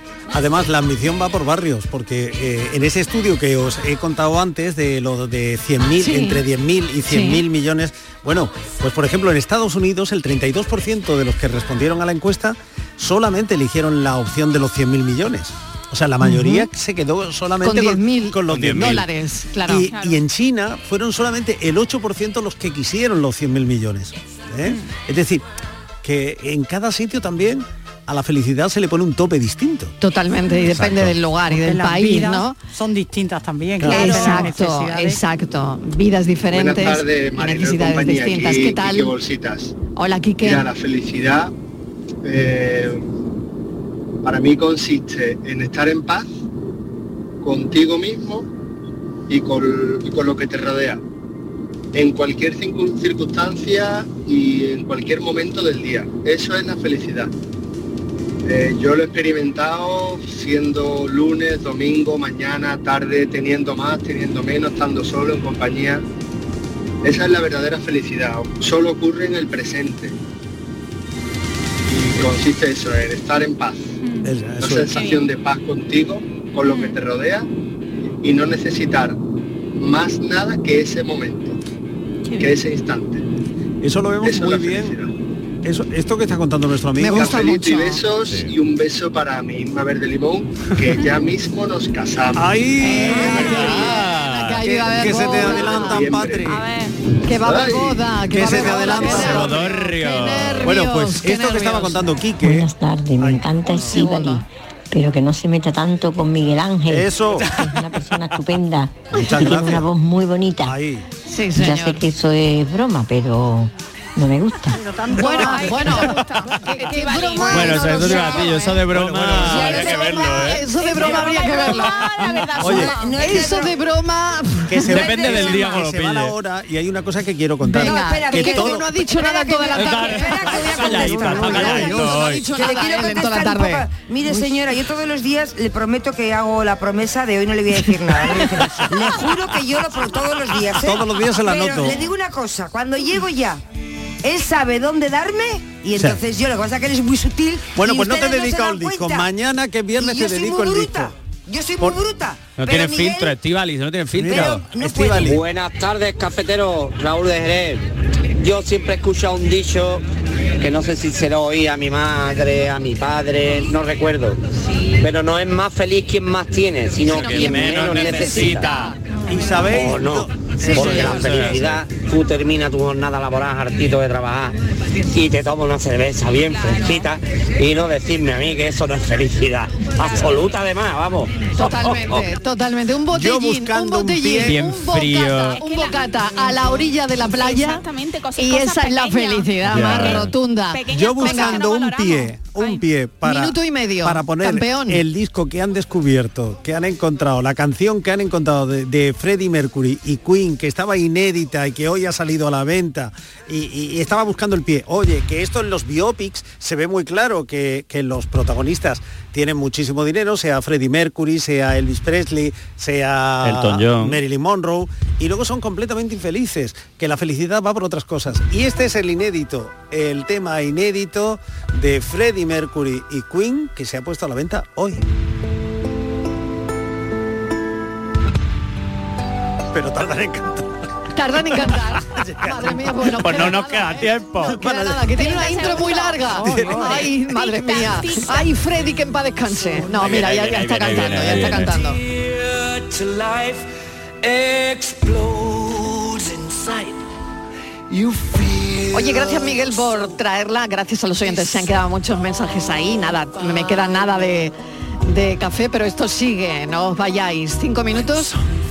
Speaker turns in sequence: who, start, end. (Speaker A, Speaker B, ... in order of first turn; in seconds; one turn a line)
Speaker A: 0.3-19.1
Speaker B: 6.0-6.4
Speaker B: 7.1-7.4
Speaker B: 16.2-16.7
Speaker B: 17.6-19.9
Speaker C: 18.5-19.1
Speaker A: 19.7-25.4
Speaker D: 19.8-20.2
Speaker A: 26.0-29.9
Speaker B: 30.0-32.5
Speaker C: 30.6-31.1
Speaker E: 31.5-35.2
Speaker D: 33.8-34.5
Speaker B: 33.8-39.1
Speaker F: 36.5-39.7
Speaker B: 40.0-40.7
Speaker F: 40.4-41.5
Speaker F: 42.2-43.0
Speaker F: 44.2-46.3
Speaker F: 47.4-48.5
Speaker F: 49.3-51.0
Speaker F: 51.9-57.3
Speaker F: 58.5-66.0
Speaker F: 67.0-70.1
Speaker F: 71.9-73.9
Speaker D: 74.0-74.3
Speaker A: 74.2-75.0
Speaker F: 74.6-77.5
Speaker D: 74.8-75.3
Speaker D: 76.6-77.0
Speaker F: 78.2-79.2
Speaker F: 79.8-81.6
Speaker D: 82.2-82.6
Speaker F: 82.4-83.2
Speaker A: 83.8-85.0
Speaker F: 84.2-85.1
Speaker A: 85.6-87.4
Speaker B: 87.0-88.0
Speaker F: 87.2-92.5
Speaker C: 88.2-88.5
Speaker A: 92.3-94.0
Speaker B: 92.8-96.1
Speaker C: 93.2-94.6
Speaker A: 94.5-96.6
Speaker D: 95.4-95.8
Speaker F: 95.6-96.4
Speaker D: 96.4-96.9
Speaker B: 97.2-102.1
Speaker F: 97.4-98.0
Speaker A: 98.3-99.5
Speaker D: 98.9-99.4
Speaker C: 99.0-100.8
Speaker A: 100.6-104.1
Speaker G: 102.4-104.4
Speaker B: 103.7-104.4
Speaker G: 104.9-110.7
Speaker A: 106.9-107.7
Speaker A: 109.1-109.9
Speaker A: 110.6-111.0
Speaker B: 111.3-112.0
Speaker G: 111.6-114.7
Speaker E: 114.6-116.0
Speaker B: 115.1-118.7
Speaker D: 115.1-118.8
Speaker C: 117.5-120.7
Speaker A: 118.8-120.0
Speaker B: 119.4-122.2
Speaker D: 119.6-123.6
Speaker A: 122.6-123.0
Speaker B: 122.7-125.0
Speaker H: 122.8-123.8
Speaker A: 124.7-128.8
Speaker C: 124.9-126.3
Speaker H: 124.9-125.7
Speaker B: 127.6-133.8
Speaker H: 127.8-143.6
Speaker C: 129.8-132.4
Speaker A: 130.6-132.3
Speaker A: 140.8-142.0
Speaker H: 144.2-149.3
Speaker A: 145.9-146.2
Speaker A: 147.7-151.1
Speaker H: 149.9-153.3
Speaker C: 152.6-154.6
Speaker A: 154.1-155.4
Speaker H: 154.3-155.4
Speaker I: 155.3-157.8
Speaker I: 158.4-160.0
Speaker I: 160.6-164.4
Speaker I: 165.0-168.9
Speaker C: 167.0-168.7
Speaker A: 169.3-171.6
Speaker I: 169.7-174.5
Speaker B: 170.6-171.5
Speaker C: 171.3-171.7
Speaker I: 175.1-181.6
Speaker D: 176.5-177.1
Speaker B: 181.5-187.8
Speaker A: 183.1-184.7
Speaker C: 184.4-185.6
Speaker D: 185.6-192.8
Speaker B: 188.3-191.6
Speaker C: 189.7-190.3
Speaker A: 190.9-225.0
Speaker B: 193.2-195.0
Speaker C: 213.4-214.2
Speaker A: 229.7-230.7
Speaker B: 231.1-242.0
Speaker A: 232.1-233.4
Speaker C: 233.2-234.6
Speaker A: 234.4-235.1
Speaker D: 234.8-238.5
Speaker E: 236.4-236.7
Speaker A: 236.4-236.9
Speaker C: 239.9-241.7
Speaker J: 241.7-243.7
Speaker J: 244.2-247.0
Speaker J: 247.9-249.8
Speaker B: 248.9-258.4